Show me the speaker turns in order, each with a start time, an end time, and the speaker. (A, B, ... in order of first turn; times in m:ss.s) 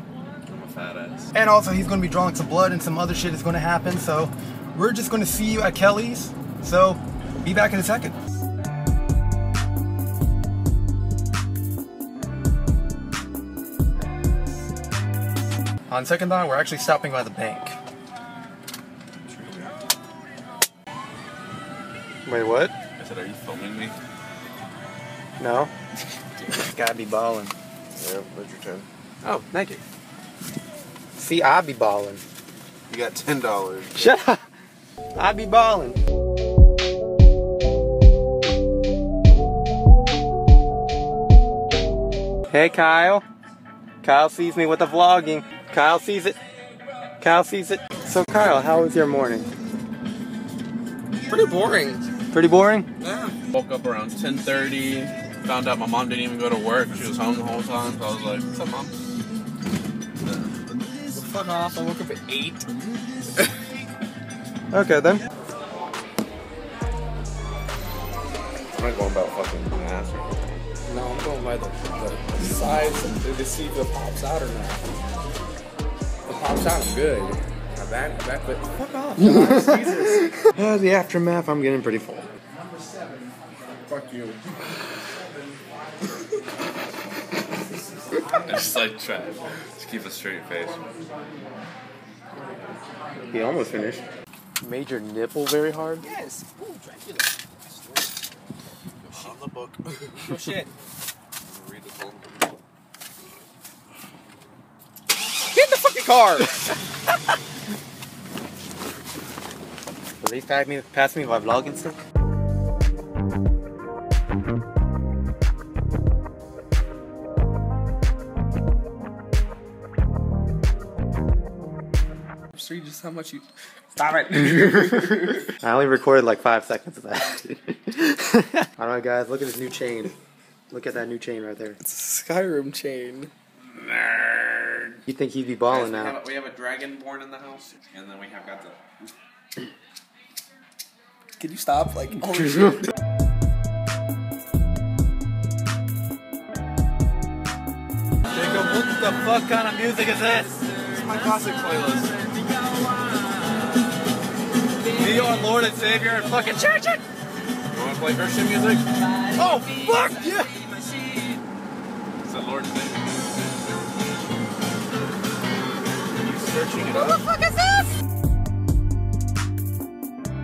0:00.5-0:01.3 A
0:01.3-0:08.2 B
0:15.9-0:17.8 B
0:19.3-0:19.8 A
0:22.2-0:22.7 B
0:23.0-0:23.9 A
0:25.4-0:25.7 B
0:26.5-0:27.5 B
0:28.0-0:28.9 A
0:29.2-0:29.8 B
0:31.2-0:32.2 B
0:32.9-0:34.0 A
0:34.0-0:34.4 B
0:35.2-0:36.0 B
0:42.5-0:43.2 B
0:44.0-0:46.4 B
0:47.2-0:49.5 B
0:51.3-0:52.0 C
0:52.3-0:52.9 B
0:53.0-0:53.4 C
0:53.5-0:58.9 A
1:01.1-1:02.7 C
1:04.7-1:05.2 B
1:08.7-1:10.6 A
1:10.9-1:14.9 C
1:16.3-1:20.4 C
1:19.2-1:22.3 B
1:23.9-1:24.6 C
1:28.4-1:30.8 A
1:33.3-1:34.0 B
1:34.6-1:36.0 B
1:36.0-1:38.1 C
1:39.0-1:40.4 A
1:40.1-1:40.7 C
1:41.4-1:42.6 A
1:45.4-1:46.8 C
1:50.2-1:52.0 B
2:02.5-2:05.5 C
2:05.6-2:10.2 B
2:10.7-2:11.8 B
2:11.8-2:13.3 C
2:13.6-2:15.0 A
2:15.1-2:16.2 B
2:15.7-2:19.1 A
2:21.4-2:22.8 C
2:28.3-2:30.6 B
2:30.9-2:32.5 A
2:34.9-2:37.0 B
2:37.7-2:38.9 A
2:39.3-2:40.6 B
2:42.2-2:43.8 A
2:46.2-2:47.2 A
2:47.0-2:47.7 C